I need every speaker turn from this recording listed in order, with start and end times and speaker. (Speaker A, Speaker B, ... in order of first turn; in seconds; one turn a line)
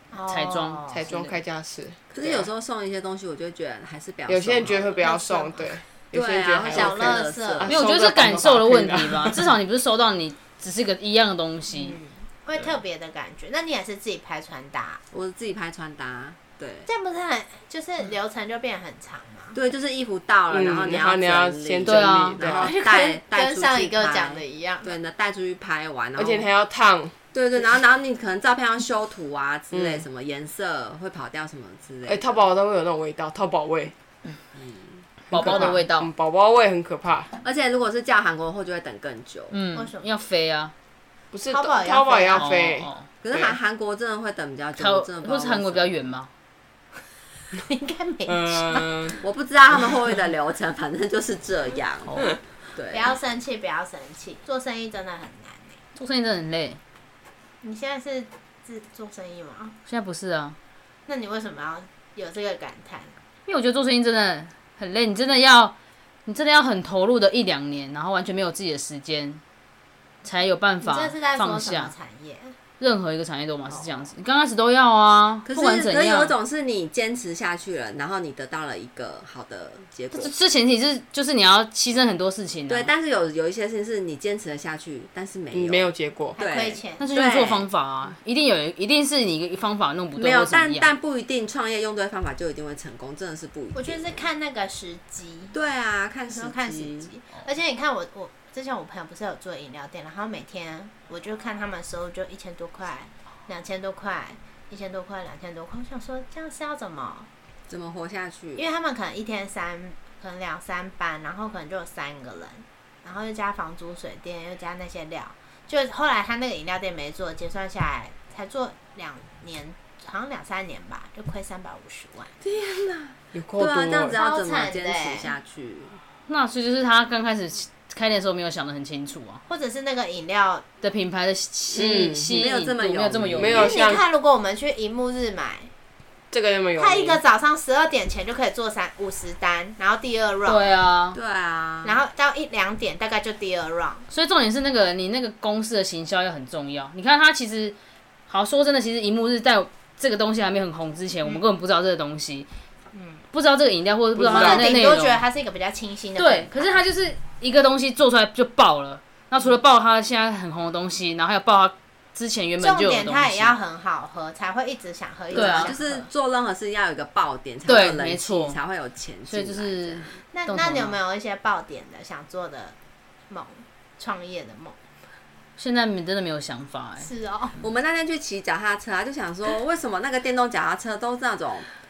Speaker A: 0.1-1.1
Speaker B: 0.3-1.4
Speaker C: 0.9-2.5
Speaker D: 2.1-5.0
Speaker C: 4.3-9.4
Speaker A: 5.0-5.8
Speaker D: 6.1-7.7
Speaker A: 6.7-7.7
Speaker B: 7.7-12.0
Speaker A: 11.7-15.0
Speaker D: 15.1-16.9
Speaker A: 16.9-19.6
Speaker D: 19.5-26.5
Speaker C: 20.5-22.7
Speaker B: 21.9-22.5
Speaker A: 22.5-24.9
Speaker C: 26.1-27.1
Speaker D: 27.3-32.4
Speaker C: 29.7-30.0
Speaker C: 32.1-33.9
Speaker D: 34.5-35.8
Speaker B: 35.3-36.1
Speaker C: 35.3-37.3
Speaker D: 37.4-39.6
Speaker B: 39.5-40.7
Speaker A: 39.7-40.1
Speaker C: 41.3-43.6
Speaker A: 41.5-42.6
Speaker B: 42.3-43.0
Speaker D: 43.2-46.0
Speaker B: 44.8-46.3
Speaker A: 47.6-48.9
Speaker C: 48.3-49.2
Speaker D: 49.2-53.1
Speaker B: 52.0-52.4
Speaker A: 52.9-55.8
Speaker B: 56.0-56.8
Speaker A: 57.6-59.7
Speaker B: 59.9-60.5
Speaker A: 61.1-63.1
Speaker B: 63.5-65.7
Speaker B: 66.2-69.4
Speaker B: 70.2-71.9
Speaker A: 70.8-72.5
Speaker B: 72.8-76.3
Speaker A: 73.7-74.1
Speaker D: 75.4-80.3
Speaker B: 80.1-82.9
Speaker D: 82.7-87.7
Speaker C: 85.5-86.4
Speaker A: 86.4-87.0
Speaker B: 87.0-90.9
Speaker D: 90.2-94.2
Speaker A: 93.7-95.5
Speaker D: 95.5-97.1
Speaker A: 96.3-107.3
Speaker D: 107.7-108.6
Speaker A: 108.6-122.3
Speaker D: 122.4-126.0
Speaker C: 123.3-124.2
Speaker A: 124.1-125.3
Speaker B: 126.3-129.4
Speaker A: 129.5-130.6
Speaker B: 130.8-133.7
Speaker D: 131.7-133.7
Speaker C: 133.4-134.0
Speaker A: 133.6-135.7
Speaker C: 136.3-137.2
Speaker A: 136.8-140.7
Speaker B: 140.4-141.2
Speaker D: 141.1-142.0
Speaker A: 141.8-144.0
Speaker B: 144.1-147.8
Speaker B: 148.3-152.5
Speaker A: 152.9-153.2
Speaker B: 153.3-155.2
Speaker C: 154.2-154.8
Speaker A: 154.2-156.8
Speaker B: 156.2-163.6
Speaker A: 162.6-166.1
Speaker B: 165.3-165.7
Speaker D: 165.3-170.2
Speaker B: 167.7-168.6
Speaker B: 169.3-171.0
Speaker A: 170.3-172.7
Speaker A: 173.3-174.8
Speaker B: 175.6-177.1
Speaker A: 177.0-177.6
Speaker D: 177.6-181.7